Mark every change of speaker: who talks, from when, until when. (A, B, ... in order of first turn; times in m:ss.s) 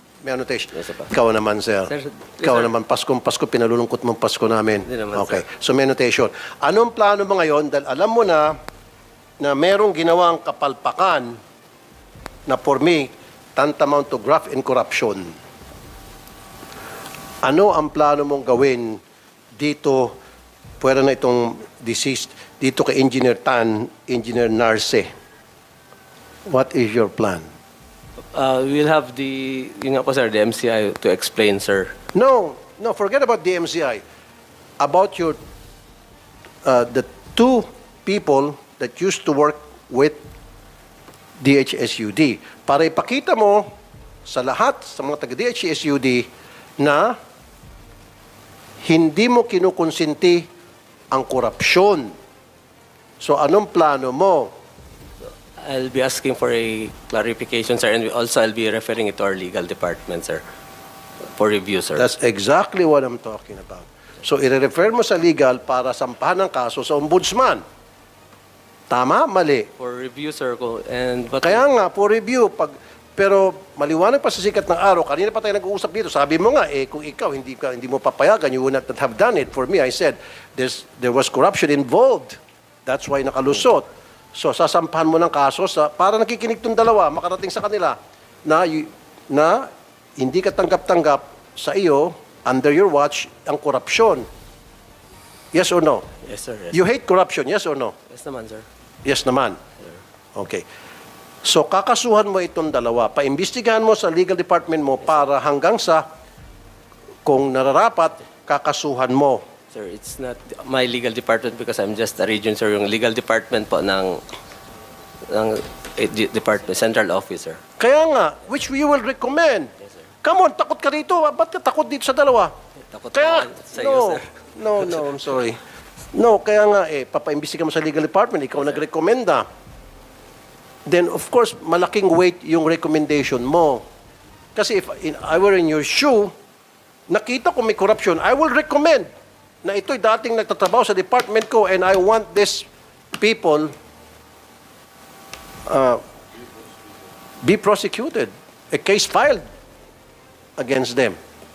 0:00.2-0:08.5 A
0:00.7-0:01.1 B
0:01.9-0:02.7 B
0:04.8-0:05.4 B
0:09.4-0:11.4 A
0:12.5-0:15.3 A
0:17.4-0:19.0 A
0:19.6-0:20.1 A
0:20.8-0:25.1 A
0:26.5-0:27.5 A
0:28.3-0:31.9 B
0:32.1-0:34.0 A
0:34.8-0:35.4 A
0:36.6-0:40.2 A
0:41.4-0:43.7 A
0:44.2-0:46.2 A
0:46.8-0:47.2 A
0:48.9-0:50.4 A
0:51.1-0:52.1 A
0:53.2-0:54.5 A
0:55.6-1:00.4 B
1:01.3-1:02.1 B
1:02.0-1:07.6 A
1:08.9-1:09.7 A
1:09.8-1:11.6 B
1:11.4-1:34.2 A
1:35.5-1:36.0 A
1:36.2-1:36.8 B
1:36.7-1:37.9 A
1:38.1-1:38.6 B
1:39.0-1:39.6 A
1:40.4-1:40.6 A
1:41.4-1:46.0 A
1:47.2-1:49.4 A
1:49.7-1:54.2 B
1:55.3-1:57.6 B
1:57.8-1:59.7 A
2:00.2-2:02.5 A
2:02.9-2:04.3 B
2:03.1-2:05.6 A
2:06.1-2:09.4 A
2:10.8-2:13.8 A
2:14.6-2:16.3 A
2:17.1-2:19.1 A
2:19.6-2:22.7 A
2:23.2-2:23.7 A
2:25.7-2:26.0 A
2:27.4-2:29.4 A
2:30.6-2:31.2 A